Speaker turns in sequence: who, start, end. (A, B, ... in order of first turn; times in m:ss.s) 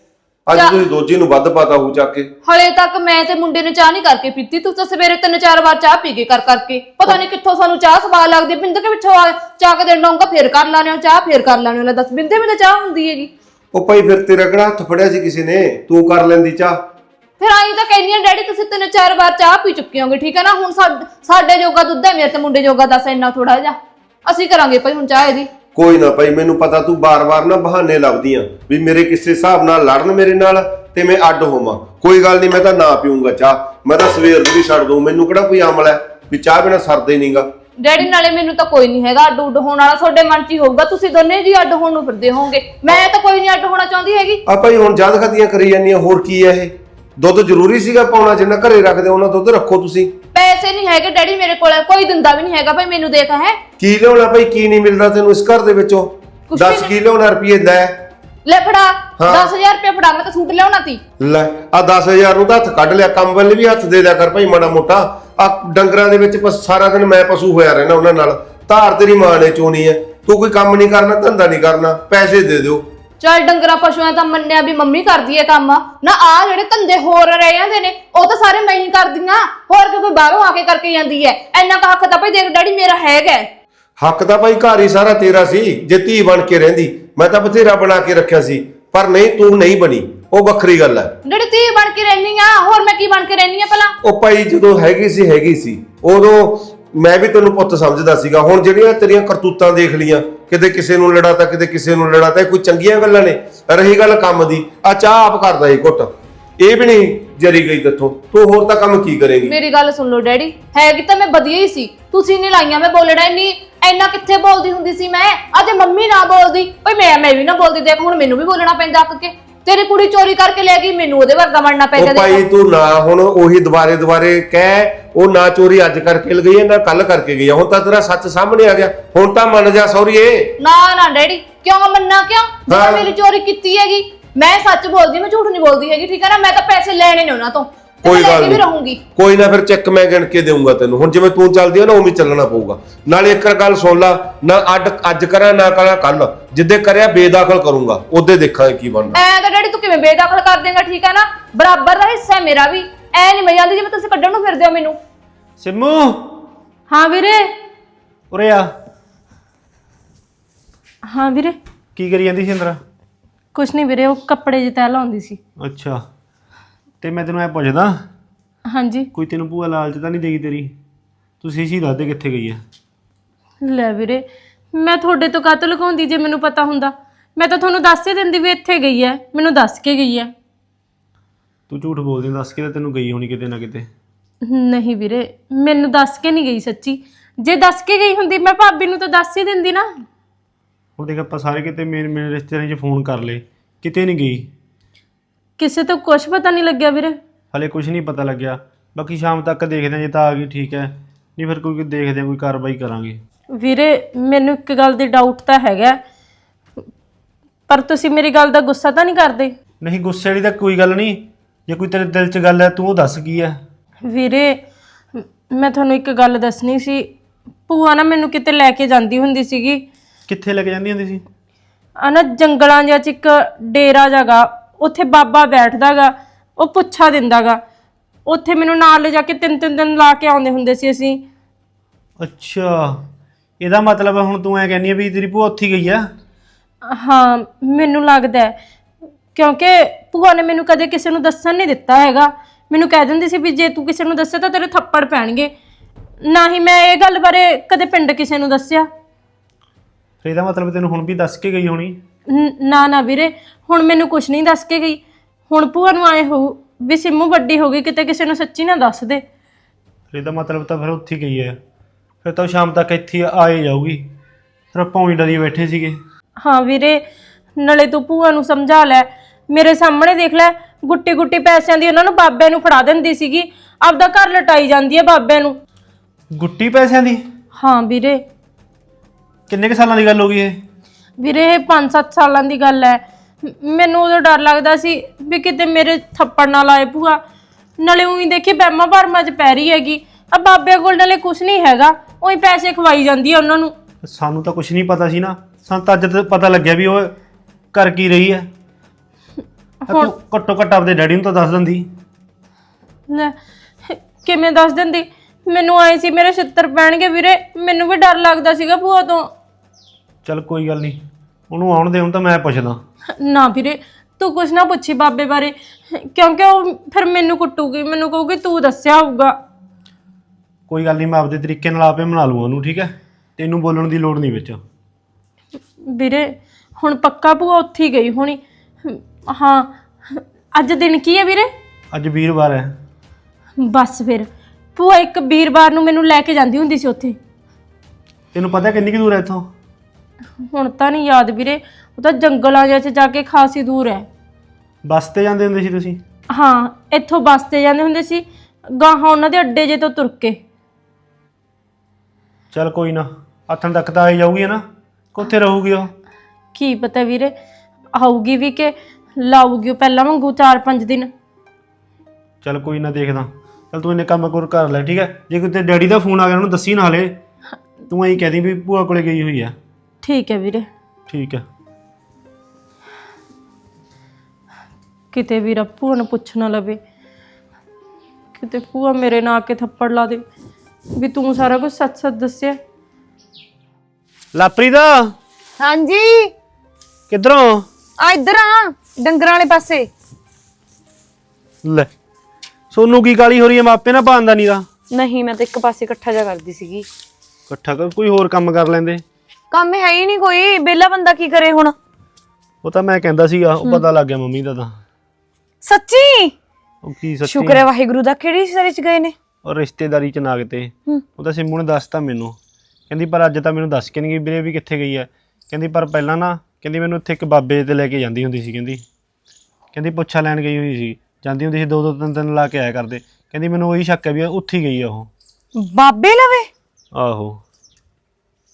0:00.5-0:02.3 A
0:02.4-0:13.3 B
0:13.7-0:16.8 A
0:17.4-0:25.5 B
0:25.7-0:37.5 A
0:37.8-0:44.4 B
0:44.4-0:50.2 A
0:50.3-0:53.6 B
0:53.8-0:58.1 A
0:56.5-0:56.9 B
0:58.4-1:01.0 B
0:59.2-0:59.5 A
1:01.2-1:12.9 A
1:13.2-1:23.5 B
1:24.0-1:31.2 A
1:31.2-1:33.9 B
1:34.0-1:49.6 A
1:49.4-2:02.4 B
2:02.0-2:10.5 A
2:10.6-2:19.0 B
2:12.7-2:13.1 A
2:18.0-2:29.2 A
2:29.1-2:35.0 B
2:35.6-2:36.4 C
2:36.9-2:37.5 D
2:38.3-2:38.7 C
2:41.1-2:41.6 D
2:42.0-2:42.8 C
2:43.5-2:45.4 D
2:45.6-2:46.0 C
2:47.0-2:48.0 C
2:48.7-2:49.1 D
2:49.1-2:50.8 C
2:51.4-2:52.6 C
2:53.6-3:00.3 D
3:01.7-3:03.9 C
3:04.4-3:10.0 D
3:11.0-3:14.5 C
3:15.6-3:17.2 D
3:17.5-3:23.2 C
3:23.5-3:26.0 D
3:27.7-3:29.6 D
3:29.8-3:33.6 C
3:34.0-3:34.6 D
3:35.1-3:37.1 D
3:37.7-3:39.8 D
3:40.3-3:41.2 C
3:42.0-3:47.6 D
3:48.2-3:51.2 D
3:52.2-3:53.0 C
3:53.6-3:56.1 C
3:56.8-3:58.6 D
3:59.3-4:05.5 D
4:06.2-4:08.9 D
4:10.2-4:12.0 C
4:12.3-4:19.2 D
4:20.1-4:21.6 C
4:22.2-4:24.1 C
4:24.7-4:26.0 C
4:26.4-4:27.0 D
4:27.6-4:35.6 D
4:36.3-4:37.2 C
4:37.6-4:38.2 D
4:39.5-4:40.6 C
4:41.2-4:47.2 D
4:47.8-4:53.7 D
4:54.0-4:57.2 C
4:57.7-4:58.5 C
4:59.9-5:01.9 C
5:03.1-5:09.3 D
5:10.2-5:12.8 C
5:13.2-5:19.4 D
5:20.7-5:24.6 C
5:25.8-5:31.5 D
5:31.9-5:32.8 C
5:33.6-5:37.2 D
5:38.3-5:39.5 C
5:40.4-5:44.1 D
5:44.8-5:46.0 C
5:46.3-5:50.4 D
5:52.5-5:55.9 C
5:56.5-5:57.3 D
5:57.9-6:01.1 D
6:02.4-6:07.2 C
6:07.9-6:09.6 C
6:10.0-6:10.7 D
6:11.1-6:11.4 C
6:15.1-6:16.8 D
6:18.4-6:20.2 D
6:20.9-6:22.6 D
6:24.3-6:25.1 C
6:25.6-6:26.3 E
6:27.1-6:27.7 C
6:28.0-6:29.9 E
6:31.6-6:31.9 C
6:32.7-6:34.6 C
6:34.9-6:36.8 E
6:37.5-6:39.0 C
6:39.5-6:41.7 E
6:42.6-6:44.8 C
6:45.6-6:46.3 E
6:46.8-6:47.6 C
6:47.2-6:49.2 E
6:49.4-6:52.4 C
6:52.9-6:58.8 C
6:59.7-7:05.1 C
7:05.6-7:06.5 E
7:06.9-7:07.4 C